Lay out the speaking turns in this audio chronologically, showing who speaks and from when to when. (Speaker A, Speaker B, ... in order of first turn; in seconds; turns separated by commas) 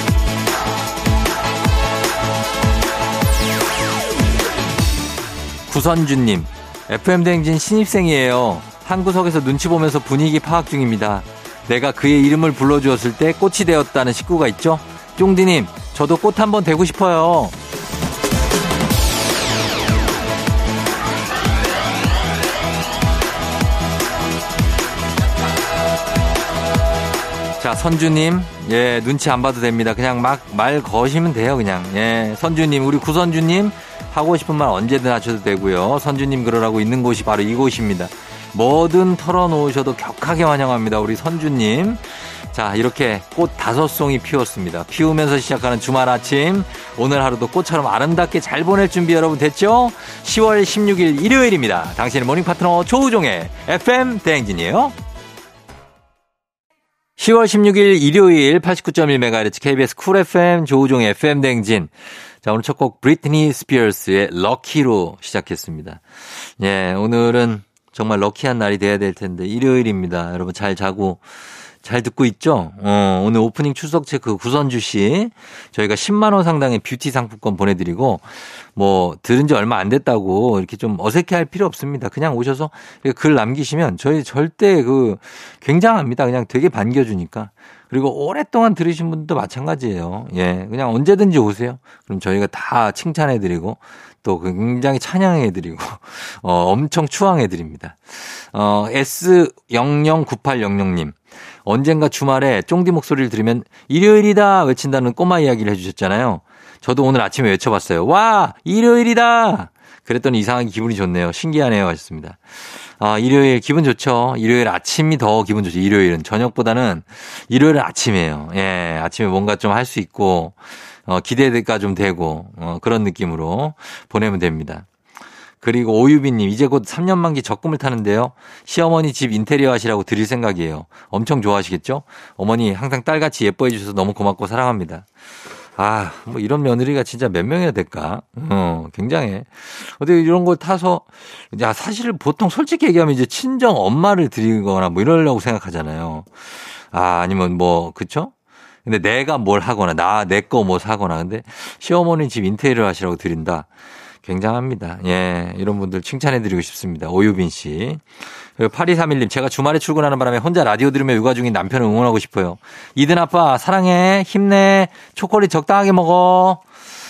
Speaker A: 5.7-17.6, Speaker A: 27.6-54.9, Speaker A: 57.2-71.2, Speaker A: 71.8-124.8, Speaker A: 125.6-135.0, Speaker A: 135.8-148.3, Speaker A: 148.8-153.7, Speaker A: 154.2-166.6